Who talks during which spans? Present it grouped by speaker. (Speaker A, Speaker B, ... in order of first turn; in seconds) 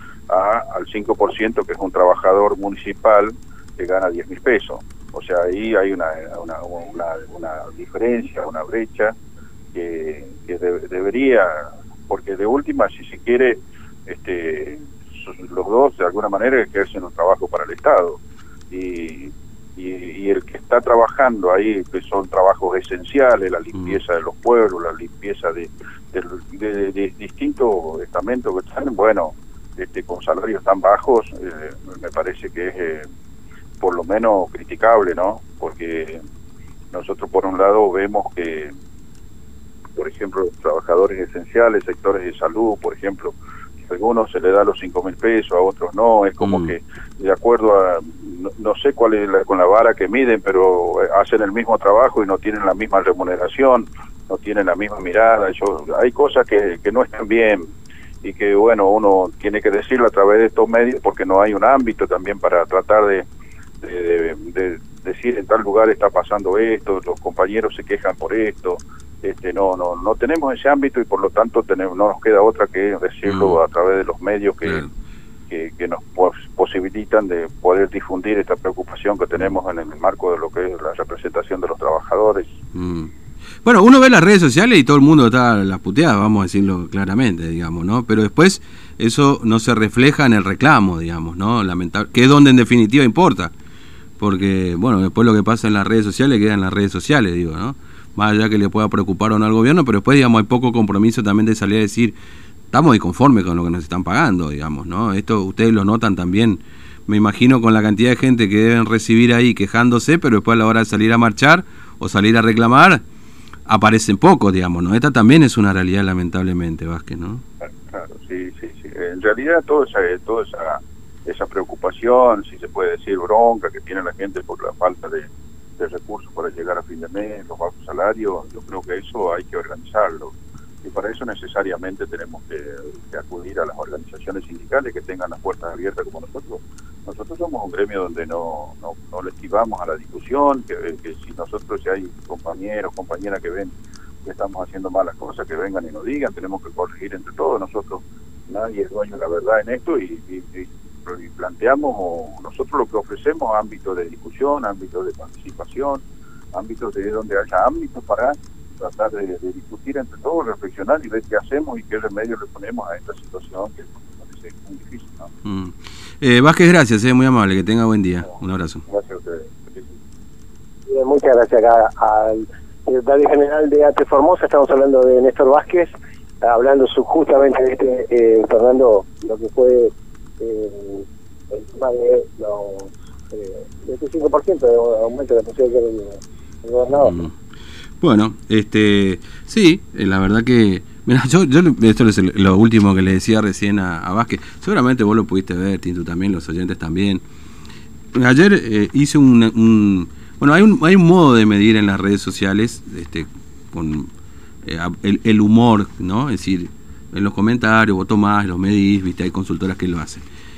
Speaker A: 0.3-9.2, 9.7-18.2, 18.7-33.1, 33.8-36.2, 36.9-38.7, 40.0-57.6, 58.2-63.3, 63.8-74.8, 75.5-82.5, 117.9-156.0, 156.5-165.3, 168.9-169.9
Speaker B: 23.8-24.0, 46.4-46.7, 73.3-73.6, 74.6-74.9, 82.7-83.1, 83.6-93.5, 94.2-102.2, 102.7-113.0, 113.7-117.4, 165.4-168.8, 187.0-187.3, 188.0-197.2, 198.2-204.1, 204.7-210.2
Speaker C: 170.9-187.2